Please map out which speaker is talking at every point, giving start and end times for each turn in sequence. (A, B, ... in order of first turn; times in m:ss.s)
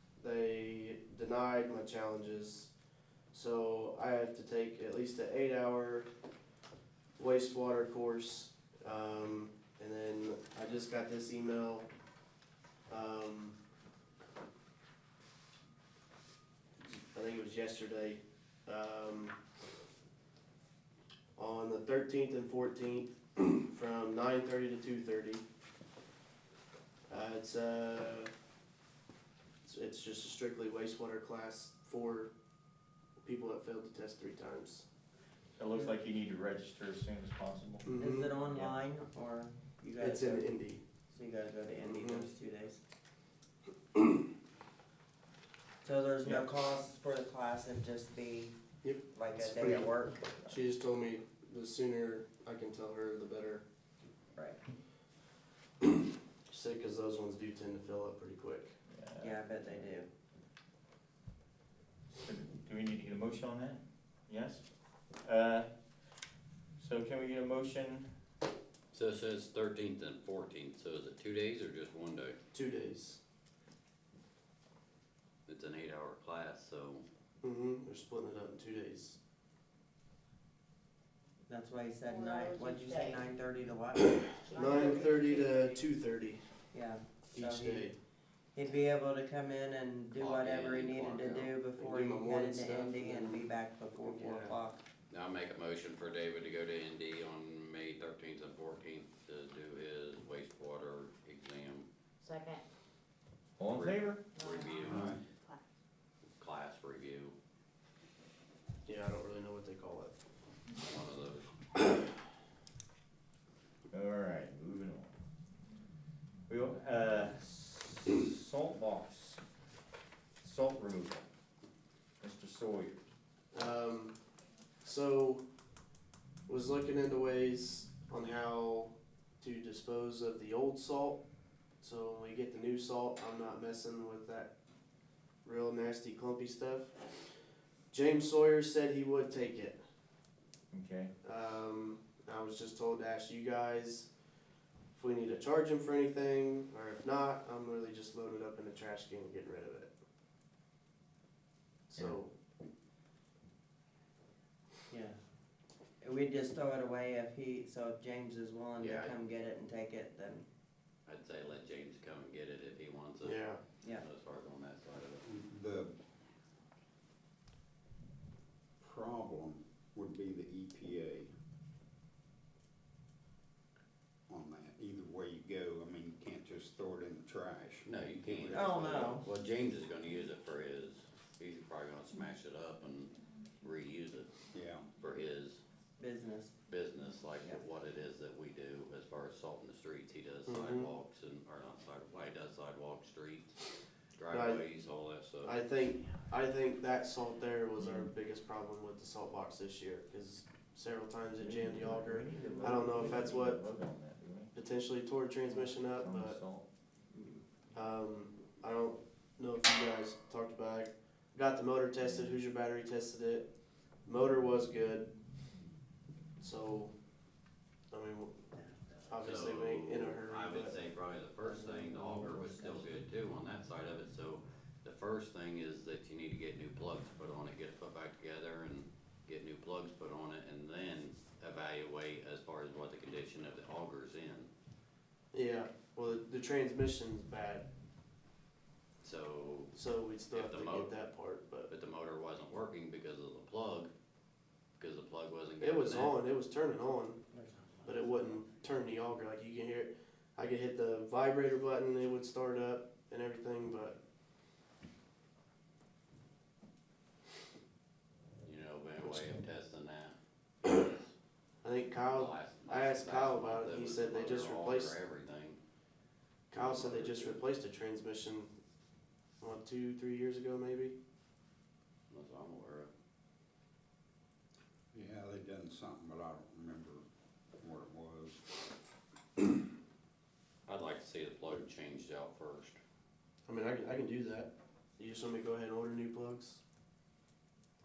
0:00.2-0:02.7 A
0:03.3-0:06.1 A
0:07.2-0:11.9 A
0:12.9-0:13.6 A
0:17.1-0:19.4 A
0:21.4-0:25.4 A
0:27.1-0:28.3 A
0:29.6-0:32.3 A
0:33.2-0:34.9 A
0:35.6-0:37.9 B
0:37.8-0:38.3 A
0:38.0-0:40.5 C
0:40.0-0:40.8 A
0:41.1-0:42.8 C
0:41.8-0:42.2 A
0:45.8-0:48.6 C
0:48.8-0:53.6 A
0:49.1-0:50.3 C
0:56.5-0:58.8 A
0:58.9-0:59.9 B
0:59.2-1:00.1 C
1:02.1-1:04.7 B
1:05.2-1:05.7 B
1:06.8-1:08.1 B
1:08.9-1:12.4 D
1:12.5-1:13.2 A
1:15.5-1:17.1 D
1:17.4-1:19.2 A
1:21.5-1:24.7 C
1:22.0-1:23.3 E
1:24.2-1:25.8 E
1:24.5-1:26.5 A
1:26.7-1:27.9 C
1:27.3-1:28.0 A
1:28.5-1:34.8 C
1:30.2-1:31.6 D
1:31.8-1:33.4 A
1:34.0-1:34.6 A
1:35.1-1:41.9 D
1:42.2-1:42.6 E
1:43.6-1:44.2 B
1:43.6-1:45.1 D
1:44.3-1:45.6 E
1:44.8-1:45.2 B
1:44.8-1:45.2 F
1:46.4-1:47.4 D
1:48.8-1:50.2 A
1:50.8-1:51.5 D
1:53.9-1:55.1 B
1:56.5-1:59.4 B
2:00.4-2:01.2 B
2:02.2-2:03.0 B
2:03.5-2:04.2 A
2:04.8-2:05.4 A
2:06.5-2:11.2 A
2:11.8-2:14.5 A
2:15.4-2:17.1 A
2:17.9-2:19.8 A
2:20.7-2:21.1 B
2:21.2-2:24.1 A
2:24.9-2:29.9 A
2:31.9-2:32.3 A
2:34.9-2:35.2 C
2:36.0-2:40.4 C
2:38.8-2:39.2 D
2:41.1-2:45.3 D
2:43.2-2:43.6 A
2:45.2-2:46.0 F
2:48.8-2:51.3 F
2:54.3-2:59.3 F
2:57.8-3:04.4 D
2:58.5-2:59.3 C
3:04.5-3:04.9 F
3:05.0-3:05.6 D
3:06.0-3:06.5 C
3:06.7-3:15.6 D
3:10.5-3:10.9 A
3:14.3-3:14.6 A
3:15.4-3:23.6 A
3:17.8-3:18.1 B
3:21.4-3:24.5 B
3:24.5-3:26.4 A
3:25.5-3:26.7 B
3:27.1-3:27.4 C
3:27.7-3:33.5 A
3:32.0-3:32.3 B
3:34.0-3:35.1 A
3:36.4-3:37.0 A
3:37.9-3:38.4 A
3:39.1-3:40.7 A
3:39.2-3:54.5 D
3:41.5-3:42.9 C
3:55.3-3:57.7 A
3:59.0-3:59.8 D
3:59.7-4:01.7 A
4:00.3-4:00.9 D
4:01.7-4:03.9 D
4:04.8-4:06.2 D
4:05.6-4:07.2 A
4:07.3-4:08.2 C
4:07.8-4:14.0 A
4:18.4-4:21.1 D
4:21.6-4:25.0 A
4:22.1-4:25.6 D
4:26.5-4:28.5 A
4:26.5-4:27.4 D
4:29.4-4:31.0 A
4:32.1-4:32.9 D
4:34.9-4:37.0 F
4:37.6-4:38.6 F
4:40.7-4:42.8 D
4:43.5-4:46.6 A